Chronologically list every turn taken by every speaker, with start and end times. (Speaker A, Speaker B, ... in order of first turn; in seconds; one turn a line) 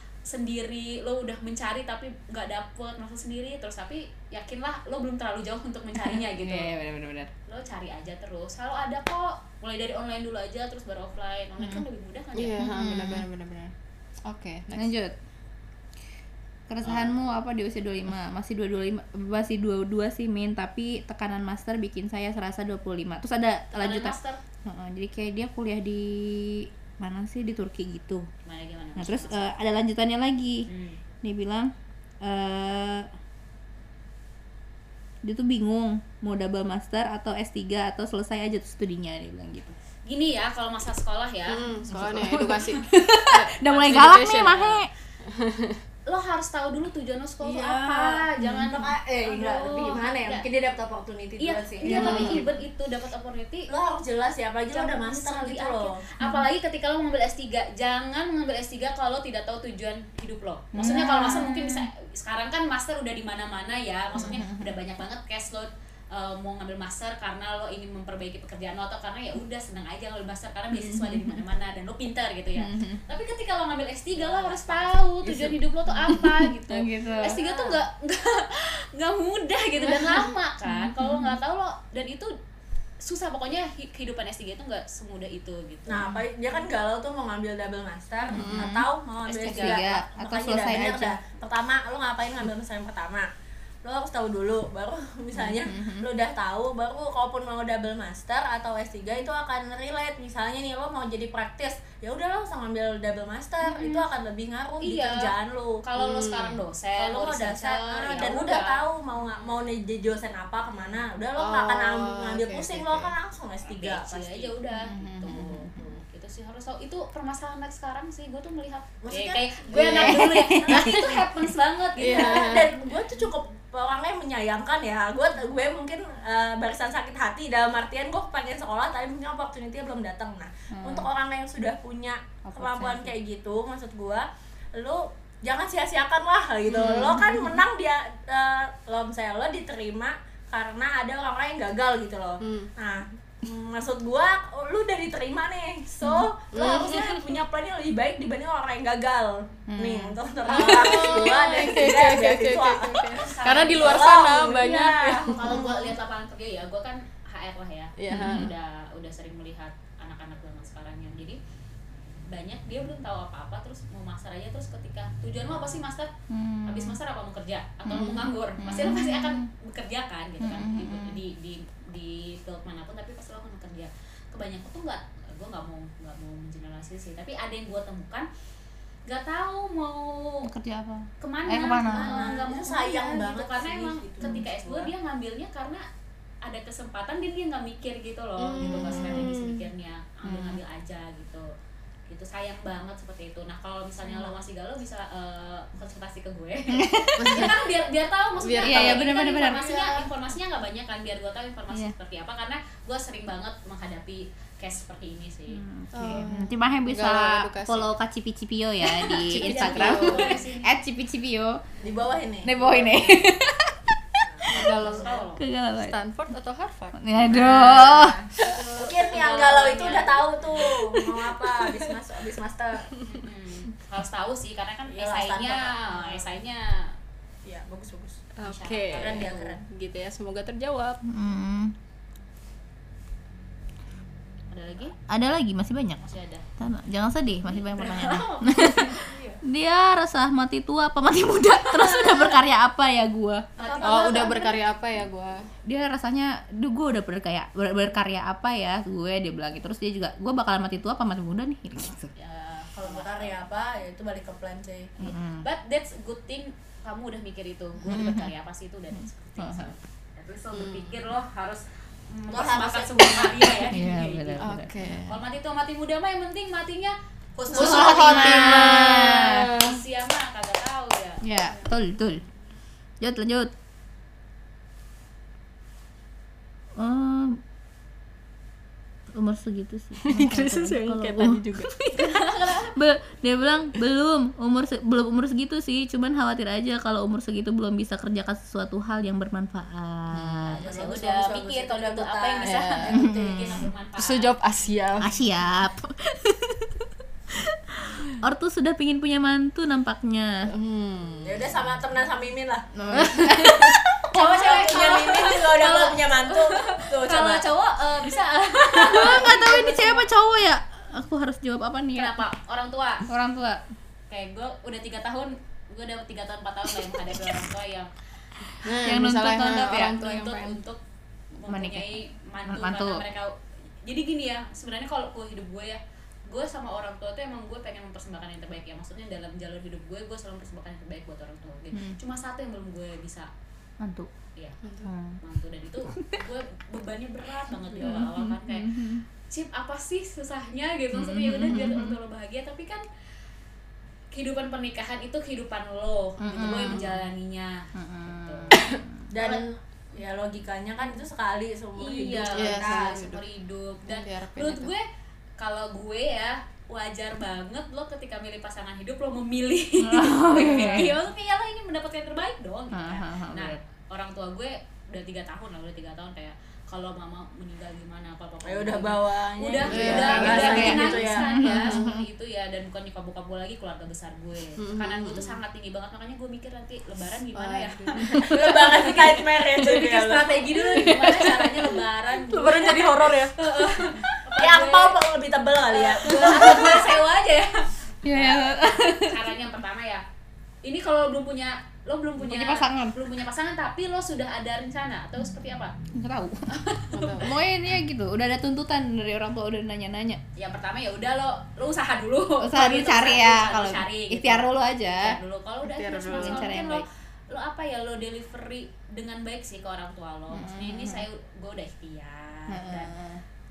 Speaker A: 0.3-6.7
Speaker B: 6.0-7.3
Speaker A: 7.5-12.5
Speaker B: 11.6-11.8
Speaker C: 12.3-13.7
Speaker B: 12.6-13.3
Speaker C: 14.2-14.9
Speaker B: 14.8-15.2
Speaker B: 16.7-28.3
Speaker A: 23.7-24.4
Speaker A: 28.4-29.6
Speaker B: 29.0-30.7
Speaker A: 30.7-31.0
Speaker B: 31.2-33.1
Speaker B: 35.2-39.6
Speaker A: 40.1-42.5
Speaker C: 41.5-45.8
Speaker B: 41.9-44.9
Speaker A: 43.6-44.7
Speaker A: 46.1-50.5
Speaker D: 47.4-52.5
Speaker B: 48.4-48.7
Speaker A: 51.4-53.7
Speaker B: 51.8-52.5
Speaker D: 53.7-56.0
Speaker A: 54.7-82.3
Speaker B: 60.7-61.9
Speaker B: 64.1-64.7
Speaker B: 70.7-71.4
Speaker B: 72.6-73.0
Speaker D: 74.2-75.6
Speaker B: 75.9-77.4
Speaker D: 77.2-77.8
Speaker B: 79.9-81.4
Speaker A: 83.0-86.0
Speaker D: 85.9-93.3
Speaker B: 85.9-86.2
Speaker B: 88.3-91.2
Speaker C: 88.3-88.8
Speaker A: 89.4-89.8
Speaker D: 93.8-105.8
Speaker B: 95.4-96.1
Speaker A: 104.8-109.7
Speaker C: 106.0-106.6
Speaker D: 107.0-114.5
Speaker C: 111.4-113.2
Speaker A: 113.7-122.6
Speaker B: 114.8-116.0
Speaker D: 119.0-121.2
Speaker B: 119.8-121.0
Speaker C: 120.7-121.0
Speaker C: 122.0-122.7
Speaker D: 122.1-155.6
Speaker B: 130.7-131.1
Speaker B: 132.5-133.1
Speaker C: 136.7-137.2
Speaker B: 136.8-137.6
Speaker C: 142.4-142.7
Speaker B: 146.0-146.3
Speaker C: 146.5-147.1
Speaker B: 149.7-150.2
Speaker C: 150.5-155.7
Speaker A: 150.5-151.7
Speaker A: 153.2-154.1
Speaker A: 155.3-161.4
Speaker C: 158.0-158.5
Speaker B: 158.1-158.5
Speaker A: 162.3-166.1
Speaker B: 166.3-167.0
Speaker A: 166.7-178.3
Speaker C: 167.9-168.3
Speaker B: 167.9-169.5
Speaker B: 170.4-171.2
Speaker A: 179.1-180.5
Speaker B: 180.4-182.4
Speaker A: 181.2-185.8
Speaker D: 181.9-184.9
Speaker A: 186.4-191.5
Speaker C: 188.4-189.7
Speaker B: 188.6-189.3
Speaker B: 190.2-190.6
Speaker A: 192.1-206.2
Speaker D: 194.0-194.4
Speaker B: 196.7-197.5
Speaker C: 197.2-197.6
Speaker C: 198.4-200.1
Speaker B: 198.6-199.7
Speaker B: 205.5-211.6
Speaker C: 205.9-207.9
Speaker A: 209.0-210.7
Speaker C: 209.1-210.4
Speaker D: 211.8-213.2
Speaker B: 212.4-214.7
Speaker D: 214.2-215.2
Speaker C: 214.5-215.1
Speaker A: 214.6-215.5
Speaker B: 215.4-215.9
Speaker C: 215.8-217.1
Speaker B: 217.0-218.2
Speaker D: 217.2-222.9
Speaker A: 218.4-220.7
Speaker C: 220.9-221.9
Speaker C: 222.9-223.2
Speaker A: 223.1-226.9
Speaker D: 224.9-226.4
Speaker D: 227.4-228.2
Speaker C: 228.4-231.0
Speaker A: 228.4-229.4
Speaker D: 228.9-229.6
Speaker B: 231.1-231.8
Speaker A: 234.5-234.9
Speaker B: 235.1-236.0
Speaker A: 236.0-236.5
Speaker B: 236.6-243.4
Speaker A: 237.5-239.1
Speaker D: 239.0-239.4
Speaker A: 241.6-242.3
Speaker A: 243.6-244.5
Speaker D: 243.6-244.6
Speaker C: 243.8-245.5
Speaker B: 245.7-252.1
Speaker A: 252.2-253.4
Speaker D: 252.8-254.9
Speaker B: 255.0-255.4
Speaker A: 255.1-271.6
Speaker B: 257.8-258.3
Speaker B: 259.0-259.7
Speaker C: 260.5-261.0
Speaker D: 262.3-263.7
Speaker B: 263.7-264.7
Speaker C: 264.4-265.2
Speaker B: 267.5-269.5
Speaker C: 267.5-269.8
Speaker B: 271.2-272.2
Speaker B: 273.0-273.5
Speaker B: 276.8-277.4
Speaker B: 279.1-290.6
Speaker C: 280.0-281.7
Speaker A: 281.9-282.7
Speaker A: 290.4-294.3
Speaker D: 290.6-293.5
Speaker C: 292.4-293.0
Speaker B: 292.9-293.7
Speaker C: 294.0-295.1
Speaker B: 295.0-300.5
Speaker C: 300.5-301.5
Speaker D: 301.2-307.5
Speaker B: 302.8-303.8
Speaker C: 302.9-303.7
Speaker A: 304.1-310.0
Speaker B: 308.8-312.2
Speaker D: 308.9-309.2
Speaker A: 311.9-313.1
Speaker B: 313.1-313.6
Speaker A: 314.1-317.9
Speaker C: 318.6-320.6
Speaker B: 318.6-319.9
Speaker A: 319.5-320.8
Speaker A: 321.4-333.3
Speaker B: 321.5-322.0
Speaker B: 322.5-323.0
Speaker B: 331.7-332.0
Speaker B: 333.8-334.1
Speaker C: 334.6-334.9
Speaker B: 334.8-335.2
Speaker A: 335.2-342.8
Speaker B: 337.7-339.0
Speaker B: 340.9-342.0
Speaker C: 341.5-341.8
Speaker A: 344.1-347.6
Speaker B: 346.2-347.0
Speaker B: 347.8-349.1
Speaker A: 348.2-348.6
Speaker D: 349.1-353.0
Speaker A: 351.8-354.8
Speaker C: 352.3-353.2
Speaker C: 353.9-354.7
Speaker A: 355.4-385.0
Speaker B: 359.8-361.0
Speaker C: 360.4-360.8
Speaker B: 362.7-363.6
Speaker D: 368.4-371.3
Speaker C: 369.7-370.9
Speaker B: 369.9-372.0
Speaker C: 371.5-372.0
Speaker C: 374.6-375.4
Speaker C: 377.4-378.7
Speaker D: 378.1-380.5
Speaker C: 380.7-381.7
Speaker C: 382.3-383.4
Speaker D: 384.1-386.9
Speaker A: 385.7-390.0
Speaker B: 386.3-386.6
Speaker B: 388.0-389.3
Speaker A: 390.6-395.8
Speaker B: 392.2-393.1
Speaker B: 395.9-396.5
Speaker A: 396.5-397.3
Speaker C: 396.9-397.3
Speaker B: 397.2-400.2
Speaker A: 400.4-412.9
Speaker B: 402.4-405.2
Speaker C: 405.6-406.6
Speaker B: 406.1-406.8
Speaker B: 410.3-411.1
Speaker B: 412.5-413.2